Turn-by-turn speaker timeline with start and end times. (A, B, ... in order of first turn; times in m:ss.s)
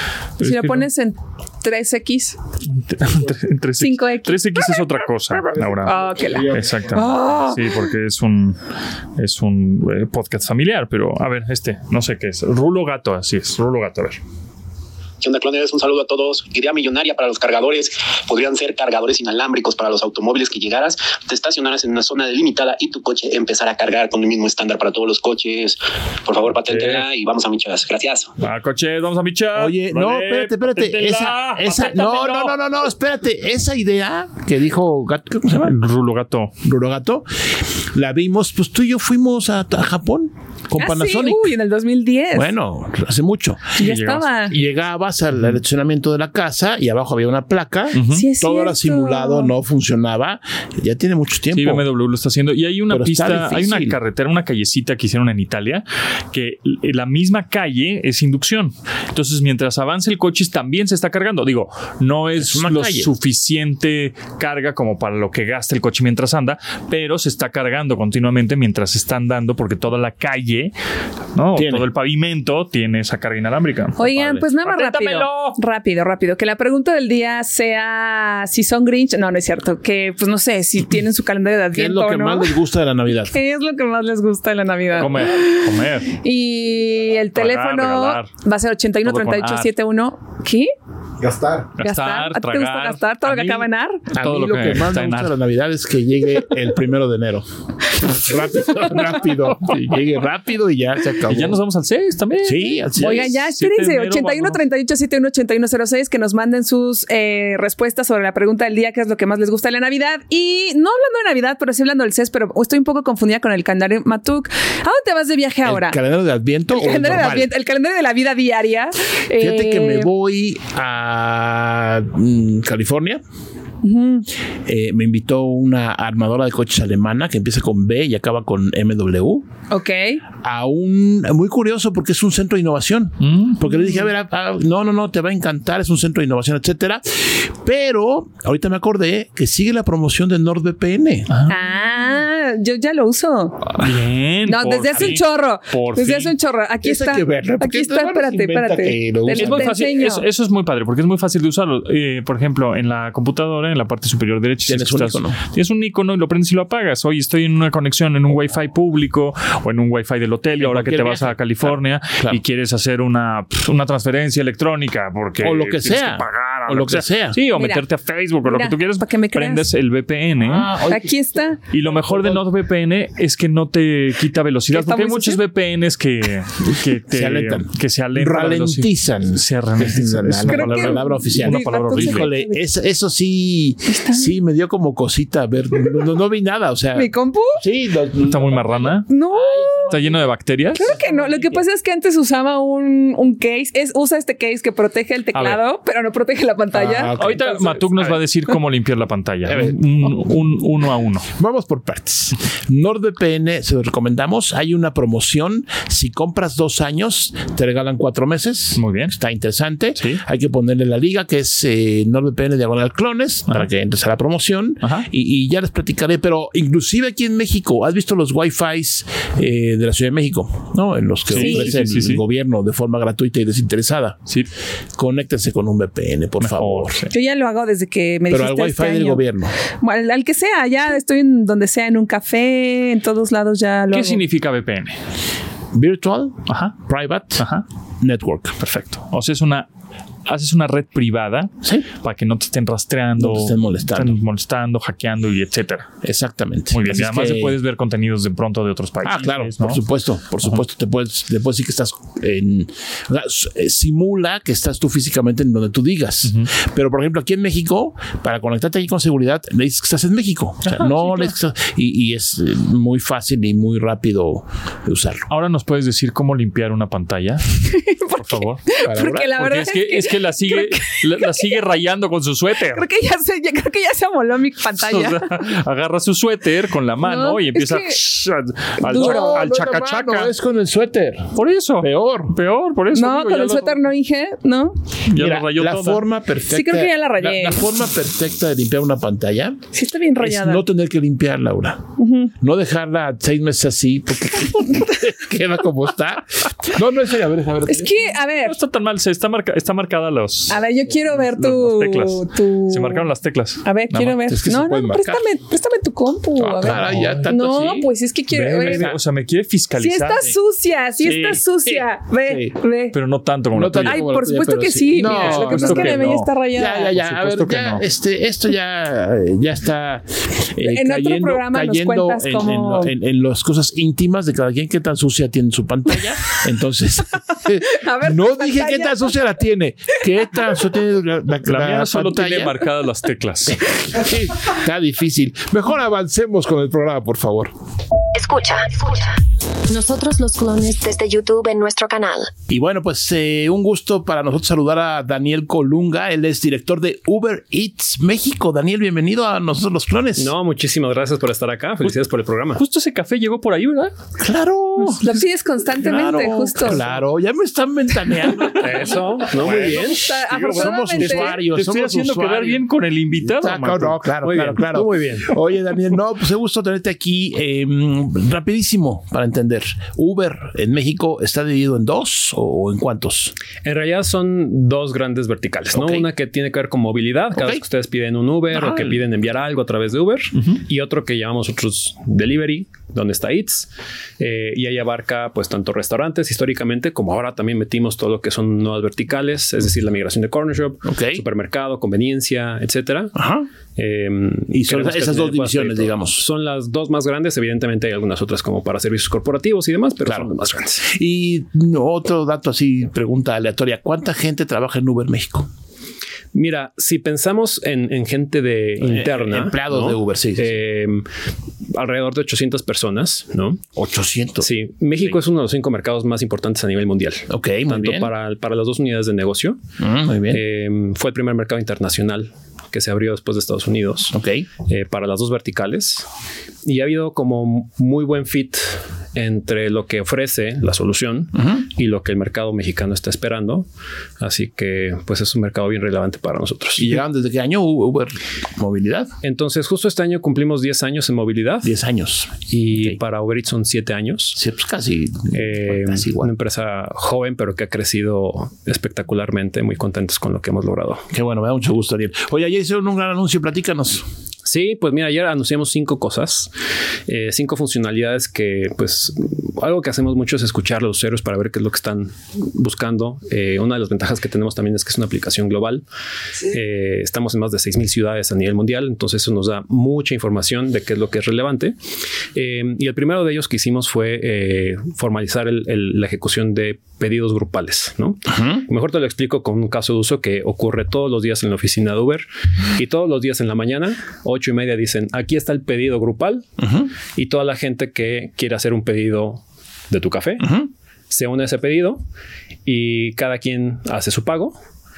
0:00.4-0:00.9 A
0:00.4-0:02.4 B
0:02.7-0:08.6 A
0:03.8-0:04.8 B
0:05.8-0:07.6 B
0:09.2-0:14.2 A
0:15.2-0:28.3 C
0:26.7-0:27.0 A
0:28.4-0:32.6 A
0:29.5-0:35.8 D
0:35.6-0:36.5 A
0:36.6-0:41.5 D
0:40.8-0:42.5 B
0:42.3-0:43.9 D
0:43.8-0:44.6 B
0:43.8-0:44.3 A
0:44.5-0:51.8 D
0:47.9-0:48.3 A
0:48.1-0:49.5 B
0:51.5-1:10.7 A
0:52.9-0:54.0 D
1:02.4-1:03.1 D
1:11.3-1:15.6 A
1:11.5-1:11.9 D
1:14.0-1:22.6 B
1:21.7-1:23.4 D
1:23.1-1:30.7 B
1:24.9-1:26.1 A
1:27.3-1:28.3 A
1:29.0-1:29.7 A
1:31.2-1:31.7 D
1:31.8-1:35.4 A
1:31.8-1:34.0 B
1:34.1-1:37.4 D
1:38.0-1:41.6 D
1:41.3-1:44.6 A
1:42.4-1:43.4 D
1:43.0-1:56.0 B
1:55.6-1:57.5 D
1:56.7-2:00.1 B
1:59.4-2:03.2 D
2:03.8-2:04.3 B
2:04.6-2:09.5 D
2:09.7-2:10.2 B
2:10.4-2:21.3 D
2:13.2-2:13.6 A
2:21.3-2:21.6 A
2:21.5-2:23.9 B
2:23.8-2:26.3 A
2:24.4-2:30.2 B
2:26.8-2:29.7 D
2:29.4-2:50.7 A
2:34.7-2:35.4 D
2:40.6-2:42.4 D
2:45.4-2:47.4 D
2:47.5-2:47.8 B
2:48.4-2:49.6 B
2:50.4-2:51.2 D
2:50.9-2:51.6 B
2:51.7-3:02.3 A
2:52.0-2:52.4 D
2:54.7-2:55.4 B
2:57.1-3:11.6 D
3:00.5-3:02.7 B
3:03.8-3:04.3 B
3:06.9-3:07.6 B
3:08.2-3:09.1 A
3:09.1-3:09.9 B
3:09.9-3:10.9 A
3:10.8-3:17.2 B
3:15.3-3:15.6 A
3:16.7-3:18.4 D
3:17.1-3:21.3 A
3:19.4-3:20.1 D
3:21.4-3:44.3 D
3:28.8-3:29.2 A
3:30.0-3:30.2 A
3:34.8-3:35.1 A
3:41.3-3:42.2 A
3:41.4-3:41.6 B
3:45.0-3:47.0 D
3:46.4-3:47.1 A
3:47.1-3:49.2 B
3:48.3-3:49.6 D
3:49.8-3:54.2 B
3:53.9-3:55.0 A
3:55.7-3:57.4 D
3:56.5-3:56.8 A
3:57.4-3:57.6 A
3:58.0-3:58.6 D
3:58.6-3:59.7 A
4:00.2-4:05.9 A
4:01.6-4:01.9 D
4:03.2-4:04.2 D
4:06.0-4:07.6 D
4:06.7-4:09.8 A
4:09.0-4:25.3 D
4:16.2-4:16.5 A
4:20.6-4:21.3 A
4:25.3-4:27.6 A
4:27.7-4:31.6 B
4:28.2-4:28.6 A
4:28.8-4:29.6 D
4:29.4-4:32.8 A
4:32.7-4:35.4 B
4:34.8-4:40.3 A
4:37.0-4:38.0 B
4:38.8-4:42.4 D
4:38.9-4:39.4 B
4:41.3-4:43.8 A
4:42.9-4:44.8 B
4:45.1-4:46.0 A
4:45.2-4:49.6 D
4:46.5-4:47.6 B
4:49.7-4:50.6 B
4:50.2-4:51.9 D
4:52.0-4:52.3 B
4:52.4-4:58.1 D
4:57.7-4:58.5 B
4:58.4-5:04.3 A
5:00.5-5:03.0 B
5:03.6-5:08.9 B
5:04.3-5:05.2 D
5:06.4-5:07.7 D
5:06.7-5:10.3 A
5:08.7-5:09.0 D
5:09.8-5:13.0 B
5:11.0-5:12.6 D
5:12.9-5:14.1 A
5:13.5-5:32.6 D
5:13.8-5:16.9 B
5:15.0-5:16.3 A
5:16.9-5:17.8 A
5:20.6-5:22.9 B
5:27.7-5:29.1 B
5:31.4-5:33.6 A
5:33.5-5:37.5 D
5:38.1-5:42.3 E
5:42.5-5:50.3 D
5:50.2-5:52.6 F
5:52.6-5:53.9 A
5:54.2-5:55.1 D
5:55.0-5:56.8 B
5:55.7-6:02.6 D
5:58.4-6:04.0 A
5:58.6-6:00.1 F
5:59.9-6:01.4 B
6:03.2-6:13.4 D
6:04.2-6:05.3 F
6:13.6-6:33.1 F
6:15.7-6:16.1 D
6:17.3-6:17.6 D
6:18.5-6:19.0 D
6:30.8-6:31.2 D
6:33.1-6:33.5 D
6:33.8-6:40.9 F
6:34.5-6:36.3 D
6:40.0-6:40.3 D
6:40.8-6:45.5 D
6:46.3-6:51.0 F
6:48.8-6:50.6 D
6:51.7-6:53.6 F
6:53.7-6:54.5 D
6:54.4-6:59.6 F
6:57.3-6:58.1 D
6:59.8-7:00.4 D
7:00.3-7:06.1 F
7:04.1-7:04.5 D
7:06.6-7:13.7 F
7:14.2-7:17.0 F
7:16.8-7:19.1 D
7:19.2-7:21.7 F
7:21.6-7:23.0 D
7:22.4-7:24.4 F
7:24.3-7:26.3 D
7:25.3-7:31.0 F
7:31.1-7:34.0 D
7:34.4-7:36.5 F
7:37.1-7:45.8 F
7:46.4-7:51.8 F
7:52.3-8:06.5 F
7:58.3-7:58.6 D
8:06.6-8:06.9 D
8:07.1-8:12.0 F
8:10.4-8:10.7 D
8:12.6-8:14.6 F